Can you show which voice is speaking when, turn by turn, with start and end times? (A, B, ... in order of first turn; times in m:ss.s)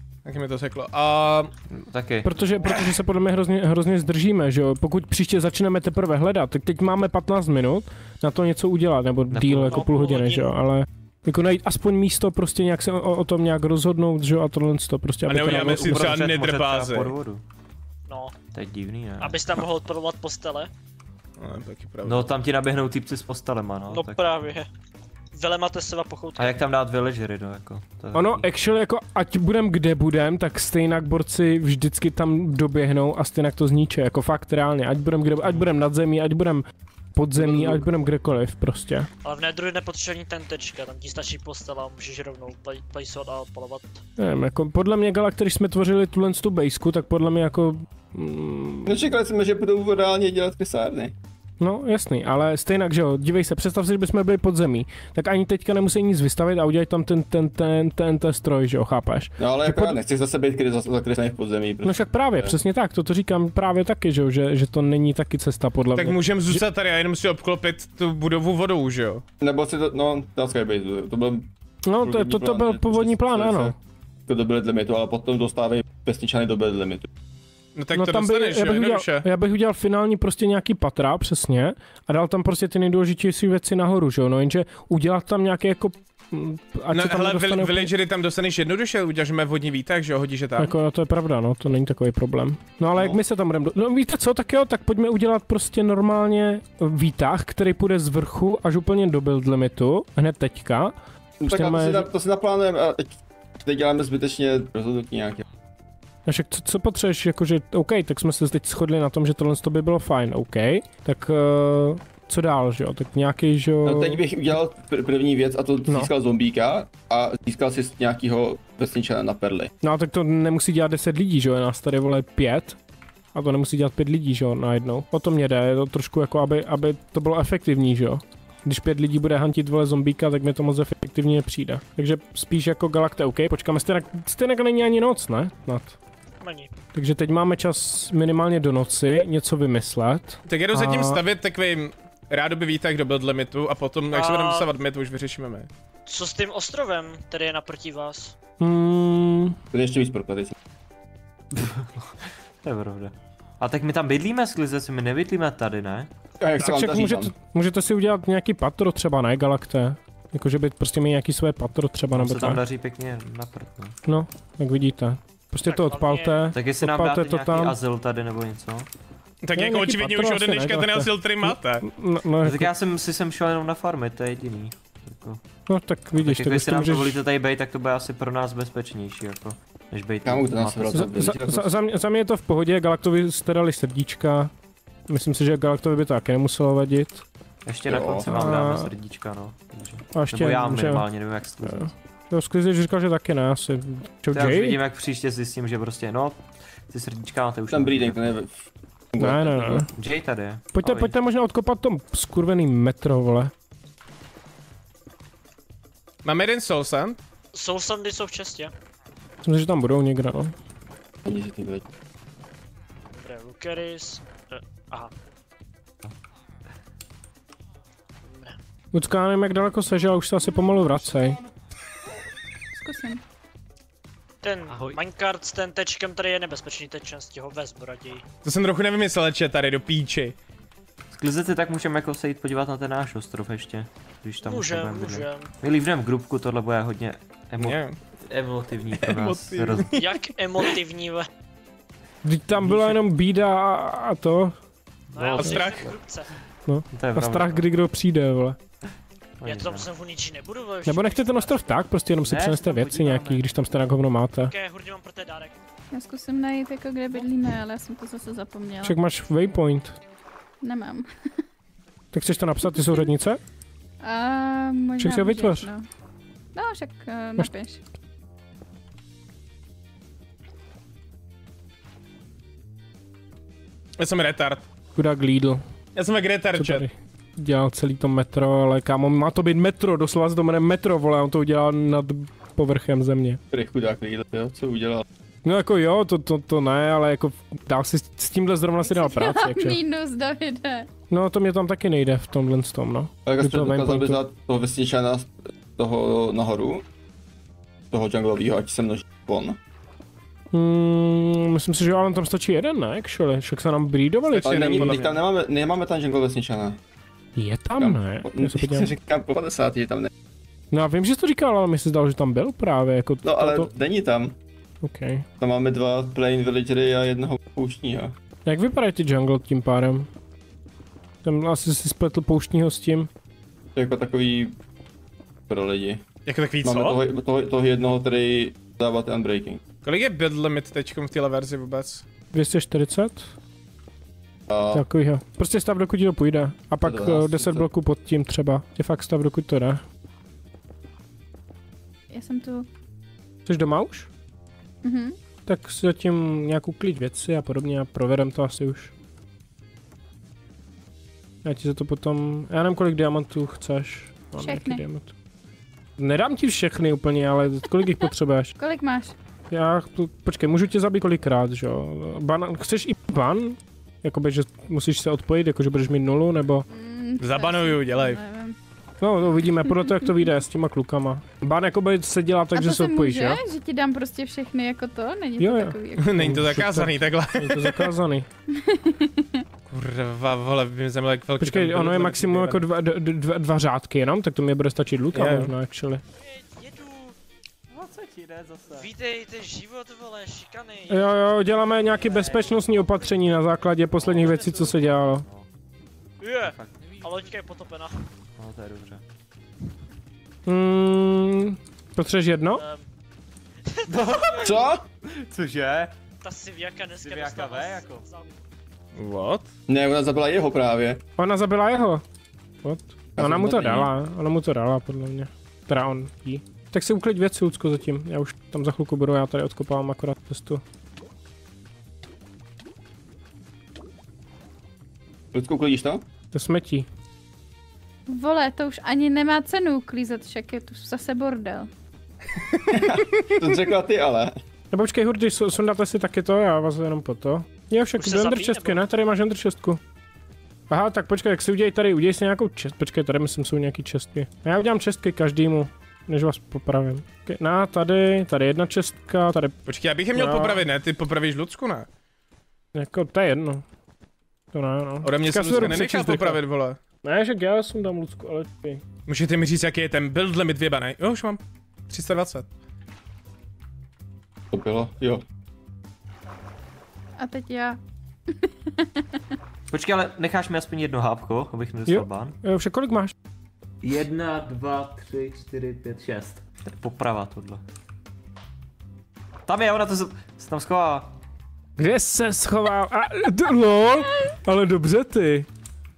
0:00.3-0:01.5 A
0:01.7-0:02.3 B
0:02.2-0:16.1 C
0:09.3-0:09.9 B
0:09.7-0:10.5 D
0:15.3-0:17.1 A
0:15.5-0:17.4 B
0:18.1-0:18.3 D
0:18.5-0:19.4 B
0:19.2-0:20.7 D
0:21.4-0:22.3 A
0:22.0-0:24.4 B
0:23.9-0:24.7 D
0:25.3-0:26.6 D
0:26.4-0:28.5 B
0:28.1-0:36.6 C
0:37.2-0:39.1 C
0:37.4-0:37.8 E
0:39.2-0:44.0 D
0:44.2-0:48.9 C
0:48.9-0:51.1 E
0:51.6-1:00.0 C
0:59.4-1:02.6 E
1:01.8-1:06.6 C
1:06.0-1:09.2 A
1:09.4-1:11.5 E
1:11.9-1:13.8 C
1:12.0-1:13.8 E
1:14.3-1:17.1 E
1:17.8-1:19.3 A
1:17.9-1:27.9 C
1:26.9-1:30.7 A
1:30.6-1:41.0 C
1:41.4-1:45.4 E
1:41.5-1:42.1 C
1:46.3-1:54.2 C
1:53.8-1:59.7 E
1:59.8-2:02.8 C
2:03.3-2:16.0 C
2:16.4-2:16.7 D
2:16.9-2:21.2 C
2:20.5-2:25.7 A
2:24.1-2:24.7 D
2:26.1-2:28.4 D
2:28.6-2:29.6 C
2:29.7-2:30.6 E
2:31.6-2:36.1 B
2:36.4-2:37.3 E
2:36.6-2:42.6 C
2:42.1-2:44.0 B
2:44.1-2:47.8 C
2:45.7-2:46.6 D
2:46.5-2:48.9 B
2:49.4-2:51.8 A
2:49.6-2:52.7 C
2:52.4-2:55.4 B
2:55.7-2:57.2 C
2:56.2-3:01.4 B
3:00.2-3:01.7 E
3:01.0-3:04.5 C
3:05.1-3:07.2 C
3:07.7-3:11.9 B
3:07.9-3:08.4 E
3:08.3-3:08.9 C
3:10.2-3:11.1 C
3:11.6-3:14.8 C
3:14.3-3:18.4 B
3:17.7-3:19.9 E
3:19.2-3:19.9 C
3:19.9-3:21.1 B
3:20.7-3:23.5 C
3:26.2-3:27.2 A
3:27.5-3:28.7 D
3:29.4-3:30.5 C
3:31.2-3:31.8 E
3:33.2-3:35.1 D
3:38.3-3:38.6 D
3:38.9-3:41.4 C
3:40.4-3:40.9 F
3:42.7-3:43.2 F
3:44.4-3:48.2 D
3:48.4-3:50.4 A
3:51.1-3:59.9 B
3:54.4-3:55.5 D
3:57.6-3:58.0 A
3:59.0-4:00.1 A
4:00.0-4:01.3 D
4:02.2-4:04.6 C
4:05.1-4:05.9 B
4:05.1-4:06.3 D
4:05.4-4:05.9 A
4:06.7-4:08.6 C
4:06.9-4:07.7 B
4:09.4-4:09.9 B
4:09.4-4:11.8 D
4:10.8-4:14.5 C
4:12.2-4:13.4 B
4:14.5-4:15.6 D
4:15.9-4:19.0 F
4:18.8-4:20.0 C
4:20.6-4:21.1 F
4:22.1-4:23.4 C
4:22.6-4:23.1 F
4:24.0-4:25.8 F
4:25.0-4:25.7 C
4:26.5-4:27.8 F
4:34.0-4:34.6 A
4:35.0-4:35.6 C
4:36.0-4:36.9 A
4:36.6-4:43.4 C
4:43.5-4:45.0 E
4:45.4-4:49.8 C
4:48.8-4:50.9 F
4:51.1-4:54.2 C
4:53.3-4:56.8 E
4:57.9-4:59.6 E
5:00.5-5:05.2 C
5:04.4-5:06.8 E
5:07.4-5:08.9 C
5:07.8-5:10.1 E
5:10.7-5:13.7 C
5:13.2-5:14.3 E
5:14.8-5:15.3 C
5:15.4-5:18.1 E
5:18.5-5:20.1 C
5:21.2-5:23.1 C
5:23.8-5:24.5 E
5:25.5-5:26.0 E
5:26.3-5:27.0 A
5:26.6-5:29.6 E
5:29.8-5:32.0 A
5:32.3-5:33.3 C
5:34.5-5:34.8 E
5:34.7-5:39.8 C
5:36.8-5:37.7 E
5:42.1-5:42.7 F
5:43.5-5:44.1 C
5:44.8-5:45.2 F
5:45.5-5:48.9 C
5:51.4-5:55.1 C
5:54.4-5:54.8 F
5:56.0-5:58.5 C
5:58.6-5:59.1 F
5:59.5-6:06.6 C
6:06.7-6:08.6 F
6:07.2-6:08.2 A
6:09.0-6:13.4 C
6:09.6-6:10.1 F
6:12.5-6:16.2 F
6:15.4-6:18.3 C
6:16.0-6:17.9 A
6:18.6-6:19.4 F
6:19.7-6:22.6 A
6:21.4-6:26.0 C
6:25.1-6:25.5 A
6:26.2-6:27.2 D
6:27.7-6:28.9 B
6:28.7-6:31.2 D
6:30.9-6:35.2 C
6:32.1-6:32.4 B
6:32.2-6:32.6 D
6:33.9-6:35.5 B
6:36.2-6:38.0 D
6:36.4-6:37.1 B
6:38.4-6:39.0 B
6:40.5-6:42.6 C
6:42.5-6:42.8 D
6:43.7-6:44.6 D
6:43.9-6:45.9 B
6:44.4-6:44.8 E
6:46.2-6:48.4 D
6:47.0-6:48.0 B
6:49.0-6:49.5 A
6:49.7-6:51.0 E
6:51.2-6:52.0 C
6:52.6-7:00.6 C
6:53.2-6:53.9 E
7:05.3-7:06.0 E
7:06.3-7:06.9 C
7:08.1-7:11.7 F
7:12.7-7:14.4 E
7:14.7-7:19.8 C
7:18.0-7:18.8 D
7:20.7-7:29.6 C
7:29.7-7:31.9 A
7:30.1-7:30.6 C
7:32.8-7:33.6 C
7:34.5-7:36.4 C
7:35.0-7:36.8 A
7:37.0-7:38.8 C
7:39.1-7:42.5 A
7:44.5-7:45.2 E
7:47.2-7:47.8 F
7:49.7-7:52.4 B
7:51.9-7:53.1 C
7:53.8-7:57.6 B
7:59.5-8:01.1 B
8:01.8-8:05.5 C